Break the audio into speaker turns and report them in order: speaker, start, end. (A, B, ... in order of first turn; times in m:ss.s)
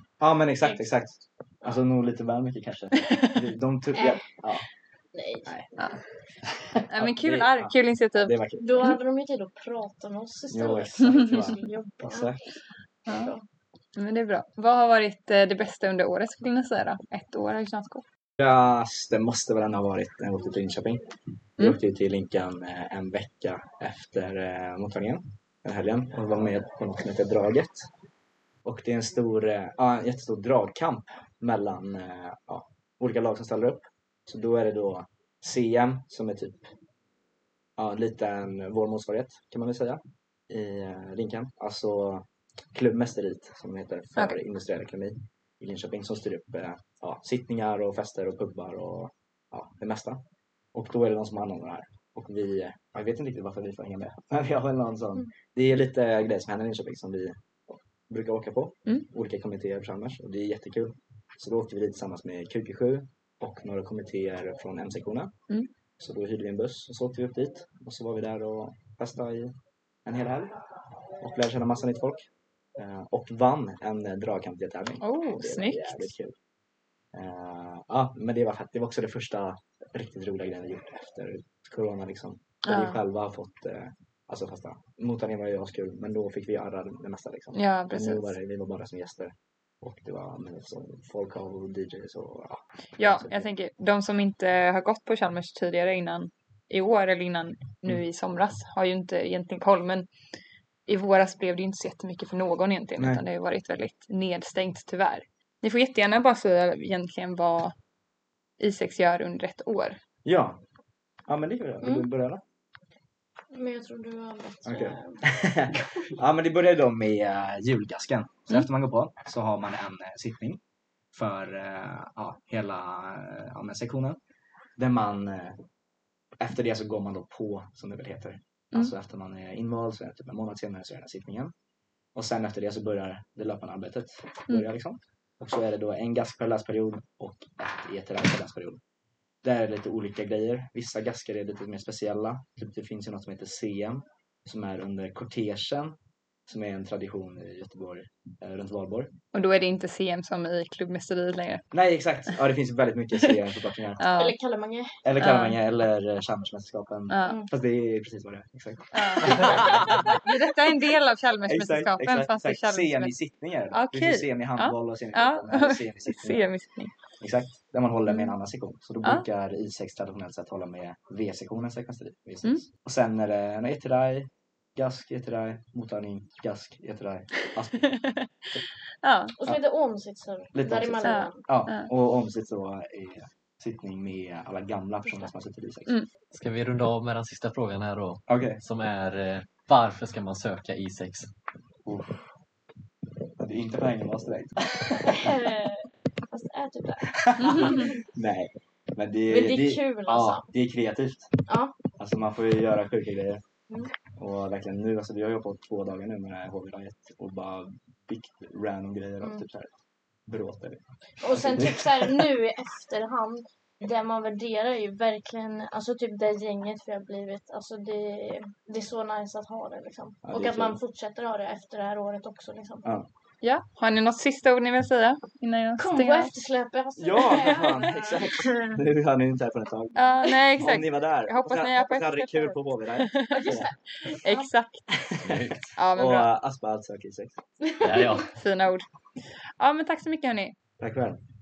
0:00.2-0:04.6 A
0:03.0-0:03.4 B
0:03.9-0:04.2 C
0:05.1-0:05.5 C
0:05.4-0:05.7 A
0:06.4-0:09.0 A
0:06.9-0:08.9 B
0:08.6-0:12.3 C
0:10.5-0:12.4 A
0:13.1-0:13.3 B
0:13.1-0:13.4 C
0:14.0-0:18.0 B
0:18.4-0:21.1 A
0:21.6-0:27.9 A
0:28.6-0:36.7 A
0:37.8-0:50.2 A
0:50.7-1:05.3 A
1:06.0-1:09.5 A
1:10.0-1:10.6 A
1:11.2-1:16.3 A
1:15.0-1:16.1 B
1:17.1-1:33.5 A
1:22.7-1:23.0 B
1:27.5-1:28.3 B
1:33.0-1:40.1 B
1:40.9-1:47.7 B
1:43.0-1:43.2 A
1:48.6-1:50.0 B
1:50.2-1:50.6 A
1:51.3-1:52.4 A
1:51.8-1:52.1 C
1:53.5-1:55.3 C
1:54.6-2:00.6 A
2:01.1-2:04.2 A
2:04.8-2:05.6 A
2:06.4-2:11.5 A
2:12.1-2:18.8 A
2:19.4-2:29.1 A
2:29.3-2:31.6 B
2:31.7-2:34.0 A
2:34.0-2:34.4 B
2:34.1-2:35.0 C
2:35.0-2:40.1 A
2:35.2-2:35.6 B
2:37.1-2:37.4 B
2:37.2-2:37.5 C
2:38.9-2:43.1 B
2:41.4-2:46.5 A
2:43.7-2:46.9 B
2:47.2-2:58.0 A
2:48.1-2:48.3 B
2:57.9-2:58.3 B
2:59.0-2:59.4 B
2:59.4-3:01.4 C
3:00.5-3:06.0 A
3:01.0-3:01.9 B
3:06.3-3:11.3 D
3:08.3-3:08.6 A
3:11.8-3:12.3 A
3:13.4-3:15.4 A
3:15.0-3:18.0 C
3:17.1-3:21.3 A
3:19.3-3:20.5 C
3:21.5-3:21.8 C
3:22.0-3:23.4 A
3:24.2-3:29.7 A
3:30.2-3:32.2 A
3:31.2-3:43.0 C
3:40.2-3:40.8 A
3:43.4-3:46.3 B
3:45.8-3:48.8 C
3:47.0-3:53.7 A
3:50.0-3:53.6 B
3:53.3-3:54.5 C
3:54.1-3:54.9 B
3:55.1-3:57.4 A
3:55.2-3:55.8 D
3:55.8-3:56.3 B
3:57.8-3:58.2 C
3:57.8-3:58.3 D
3:58.3-3:58.8 B
3:59.6-4:00.6 B
4:00.8-4:01.2 A